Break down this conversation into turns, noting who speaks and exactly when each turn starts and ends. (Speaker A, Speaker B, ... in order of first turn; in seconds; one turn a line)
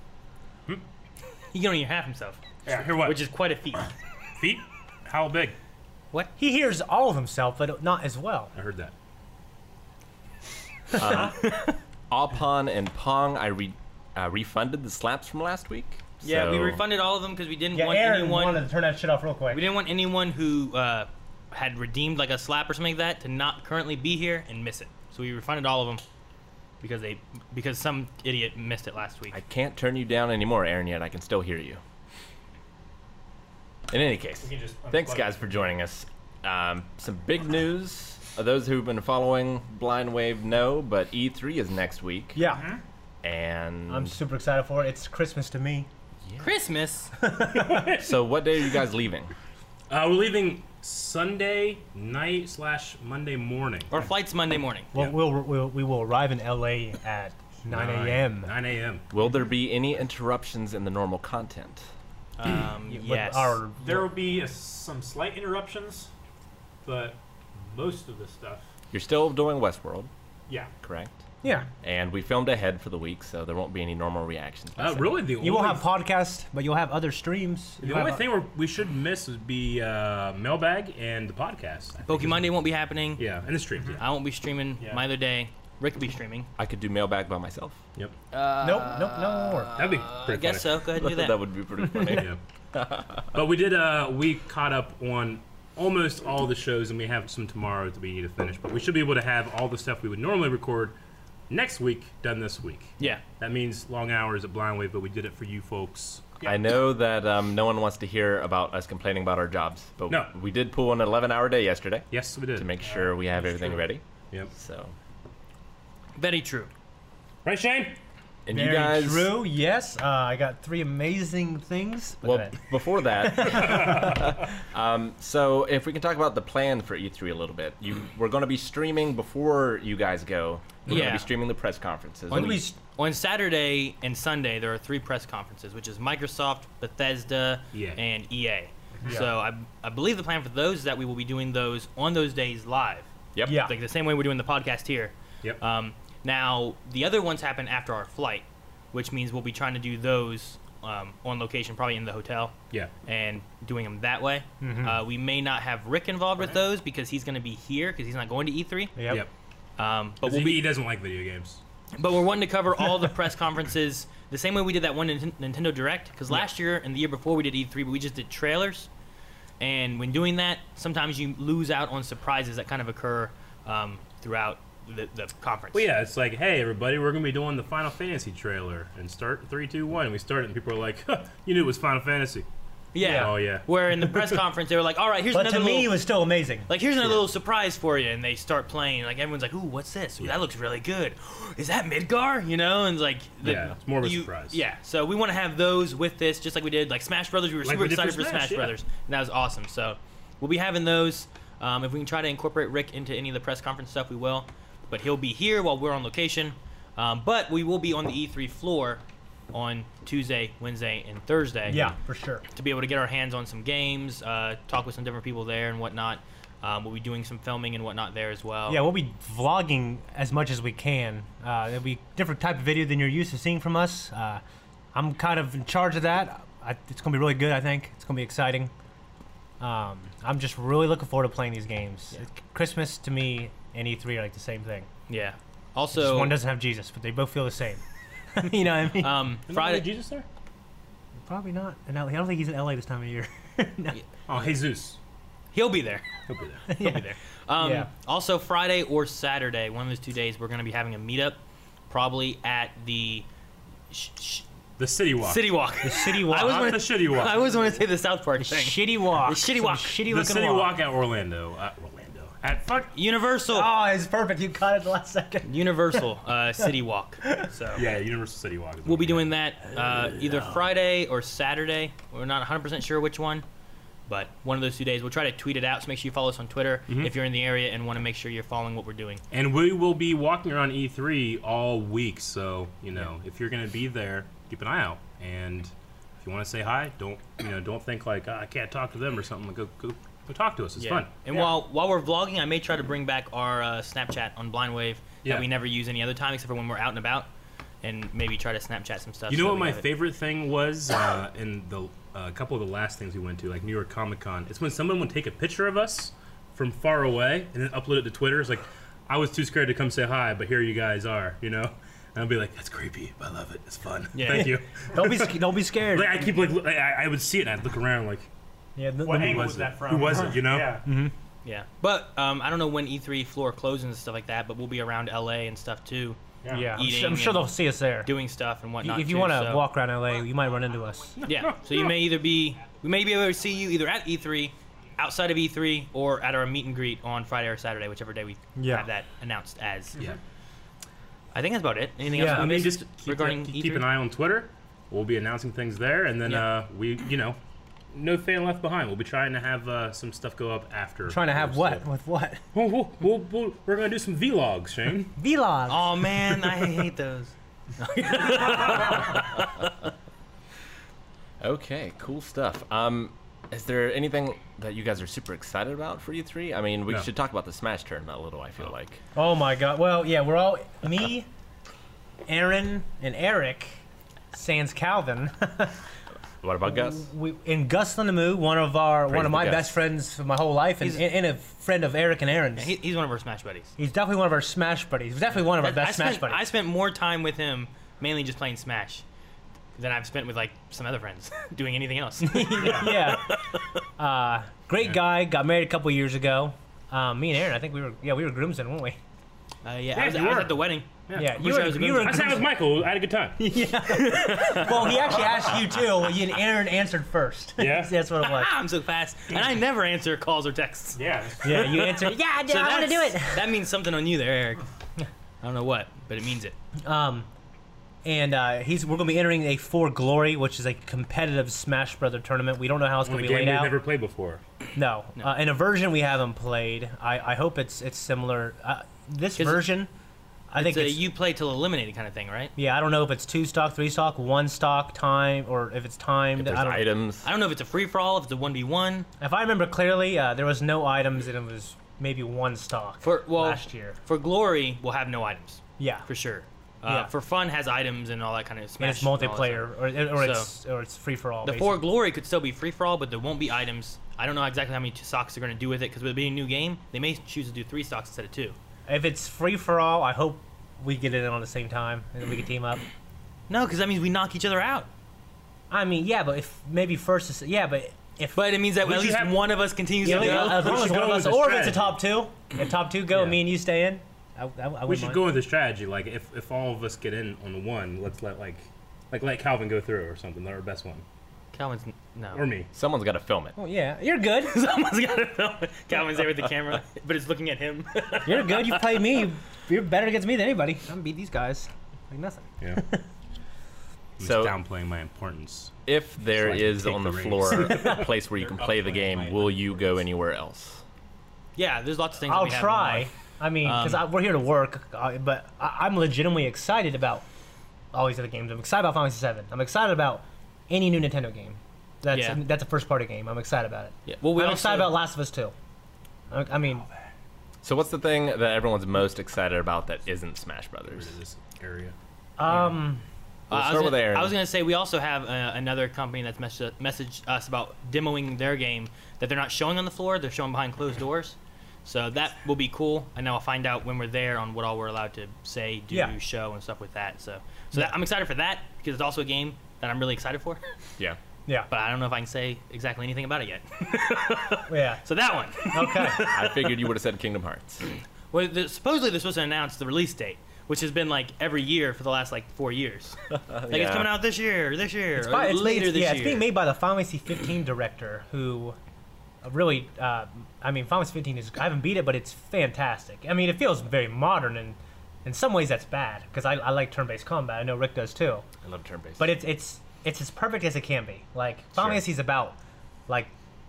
Speaker A: 1.5-3.9
Speaker B: 2.6-3.2
Speaker B: 4.4-5.5
Speaker C: 6.4-8.5
Speaker B: 8.5-8.9
Speaker D: 10.9-11.5
Speaker C: 10.9-11.6
Speaker D: 12.1-16.8
Speaker A: 16.2-18.6
Speaker C: 17.7-19.7
Speaker A: 19.5-26.0
Speaker A: 26.8-29.4
Speaker D: 29.3-31.8
Speaker D: 33.9-42.4
Speaker E: 34.4-35.7
Speaker C: 42.3-42.7
Speaker E: 42.4-42.8
Speaker D: 43.2-44.1
Speaker C: 43.9-45.9
Speaker A: 46.4-47.1
Speaker C: 47.2-47.9
Speaker B: 47.5-48.1
Speaker D: 47.9-49.3
Speaker B: 49.9-54.1
Speaker A: 53.9-54.9
Speaker C: 54.9-58.5
Speaker B: 57.7-59.0
Speaker D: 59.1-61.9
Speaker A: 62.4-63.6
Speaker C: 62.9-64.1
Speaker E: 63.8-66.1
Speaker E: 66.8-68.6
Speaker D: 68.9-70.1
Speaker D: 70.8-71.2
Speaker D: 71.8-75.2
Speaker B: 74.8-75.8
Speaker C: 75.4-78.2
Speaker B: 77.8-82.5
Speaker A: 82.0-83.2
Speaker B: 83.2-84.0
Speaker A: 84.0-86.5
Speaker D: 86.6-87.8
Speaker A: 88.3-91.4
Speaker C: 88.6-89.8
Speaker B: 89.7-90.8
Speaker D: 90.9-93.2
Speaker C: 91.8-92.2
Speaker B: 92.0-92.4
Speaker B: 93.3-101.0
Speaker B: 101.5-106.4
Speaker D: 106.4-114.9
Speaker B: 112.1-112.8
Speaker E: 112.8-113.1
Speaker A: 116.2-116.7
Speaker B: 117.4-118.0
Speaker D: 118.4-119.4
Speaker C: 118.5-124.2
Speaker D: 122.2-132.7
Speaker B: 123.5-124.2
Speaker A: 130.9-131.3
Speaker B: 130.9-131.2
Speaker C: 132.3-132.8
Speaker A: 132.3-159.1
Speaker B: 137.7-138.0
Speaker E: 139.0-139.3
Speaker D: 143.3-143.6
Speaker C: 143.4-143.7
Speaker C: 154.6-155.0
Speaker C: 159.0-159.2
Speaker A: 159.8-160.7
Speaker B: 160.2-161.6
Speaker A: 162.0-168.9
Speaker A: 169.6-175.9
Speaker B: 175.7-182.5
Speaker A: 182.9-186.0
Speaker C: 183.0-183.4
Speaker B: 183.0-183.7
Speaker C: 185.3-186.7
Speaker A: 186.7-211.9
Speaker B: 193.4-194.6
Speaker B: 197.6-198.7
Speaker C: 211.7-212.4
Speaker A: 212.5-218.8
Speaker C: 218.7-224.4
Speaker C: 224.9-228.7
Speaker C: 229.6-234.9
Speaker A: 235.1-236.4
Speaker C: 235.9-237.8
Speaker C: 238.3-239.3
Speaker A: 239.0-239.9
Speaker B: 239.5-240.2
Speaker C: 241.2-244.0
Speaker B: 244.3-245.0
Speaker A: 245.5-246.1
Speaker B: 246.3-246.6
Speaker C: 246.7-247.9
Speaker A: 246.7-253.3
Speaker A: 253.9-254.4
Speaker B: 254.8-255.4
Speaker A: 255.2-260.0
Speaker C: 255.8-256.8
Speaker B: 256.5-257.5
Speaker C: 258.4-260.7
Speaker B: 260.1-262.9
Speaker A: 262.9-263.7
Speaker C: 263.5-266.0
Speaker A: 265.4-267.8
Speaker B: 267.7-270.5
Speaker A: 268.9-273.4
Speaker A: 274.1-279.2
Speaker B: 279.3-291.1
Speaker A: 290.8-297.3
Speaker A: 297.8-299.9
Speaker B: 299.3-315.4
Speaker A: 314.1-314.5
Speaker C: 314.3-316.3
Speaker B: 315.9-318.3
Speaker C: 318.8-319.6
Speaker E: 319.0-320.9
Speaker B: 319.1-320.8
Speaker C: 320.8-321.1
Speaker A: 321.4-329.7
Speaker E: 326.4-326.7
Speaker C: 326.5-328.1
Speaker C: 328.8-331.3
Speaker B: 331.2-332.0
Speaker A: 331.2-340.1
Speaker C: 338.6-338.9
Speaker A: 341.3-343.9
Speaker C: 342.1-342.7
Speaker B: 342.1-347.4
Speaker B: 347.9-351.8
Speaker C: 351.1-352.4
Speaker B: 352.5-355.1
Speaker C: 355.2-356.1
Speaker A: 355.7-359.6
Speaker C: 358.6-358.9
Speaker D: 361.4-369.0
Speaker C: 369.1-371.3
Speaker C: 372.3-373.8
Speaker C: 374.3-375.8
Speaker D: 376.4-377.1
Speaker C: 376.6-382.7
Speaker D: 379.1-379.8
Speaker A: 382.6-383.7
Speaker C: 383.8-386.5
Speaker A: 385.5-389.0
Speaker A: 389.8-393.7
Speaker C: 392.2-399.0
Speaker A: 399.6-402.3
Speaker B: 399.9-403.4
Speaker C: 401.1-402.4
Speaker C: 403.4-408.5
Speaker A: 404.1-404.9
Speaker B: 407.6-407.9
Speaker A: 408.2-414.6
Speaker E: 410.9-411.7
Speaker C: 411.4-413.5
Speaker A: 415.4-416.6
Speaker C: 416.8-417.3
Speaker C: 418.0-423.8
Speaker B: 423.0-424.4
Speaker C: 424.7-429.9
Speaker A: 429.4-429.7
Speaker C: 430.5-431.0
Speaker A: 430.6-432.5
Speaker C: 432.6-436.9
Speaker D: 436.3-437.3
Speaker A: 437.2-439.1
Speaker C: 439.2-444.0
Speaker A: 443.0-450.5
Speaker C: 445.8-446.1
Speaker C: 448.8-451.8
Speaker A: 451.4-458.6
Speaker C: 458.9-462.8
Speaker A: 463.5-464.9
Speaker C: 465.7-468.4
Speaker A: 468.3-470.8
Speaker B: 468.8-471.9
Speaker C: 470.0-475.2
Speaker B: 474.9-481.0
Speaker A: 481.5-482.4
Speaker B: 482.3-482.7
Speaker D: 482.7-483.6
Speaker C: 483.6-484.6
Speaker A: 484.5-488.9
Speaker C: 488.2-493.0
Speaker B: 494.2-498.1
Speaker D: 494.2-494.6
Speaker D: 495.9-500.8
Speaker C: 497.6-498.1
Speaker E: 498.3-500.0
Speaker A: 501.6-503.1
Speaker C: 502.3-507.2
Speaker A: 503.6-504.1
Speaker C: 507.9-515.5
Speaker A: 512.1-512.4
Speaker A: 514.1-515.0
Speaker C: 516.3-516.9
Speaker D: 517.6-521.1
Speaker B: 520.9-521.9
Speaker C: 522.4-523.0
Speaker D: 523.5-524.3
Speaker A: 523.5-540.6
Speaker A: 541.7-546.8
Speaker C: 544.7-545.0
Speaker C: 545.7-546.3
Speaker D: 546.2-547.9
Speaker A: 548.3-556.5
Speaker D: 553.3-554.1
Speaker C: 555.2-558.8
Speaker C: 559.4-568.4
Speaker D: 568.6-569.4
Speaker C: 569.2-573.3